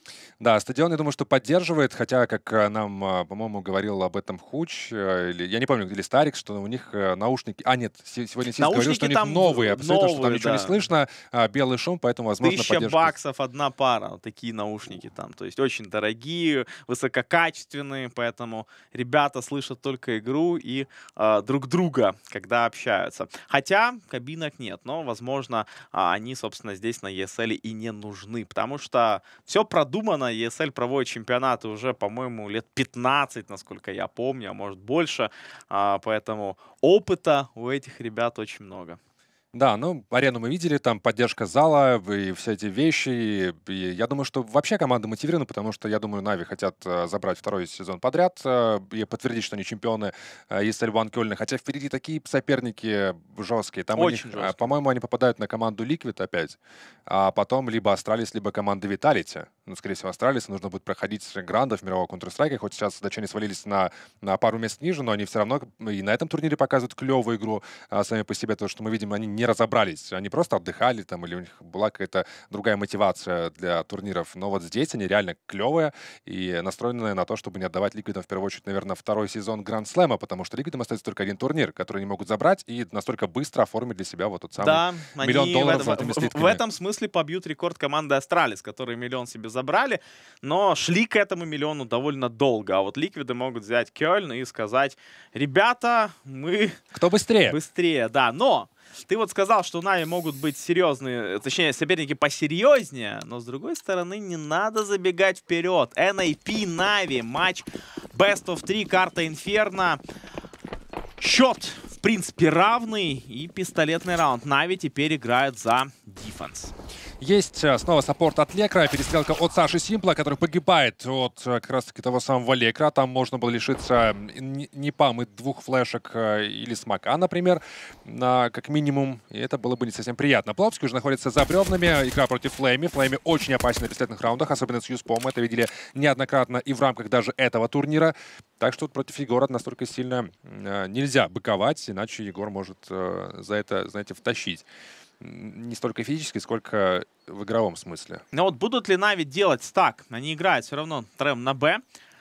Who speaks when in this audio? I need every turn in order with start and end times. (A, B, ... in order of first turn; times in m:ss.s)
0:00.4-0:13.1 A
0:08.6-0:10.8 B
0:12.4-0:39.0 B
0:39.5-1:26.6 A
0:54.0-0:54.7 B
1:24.6-1:36.8 B
1:36.9-1:37.6 A
1:37.4-1:50.0 B
1:51.2-1:56.7 B
1:57.2-2:24.6 A
2:25.2-2:28.2 A
2:28.3-2:31.8 B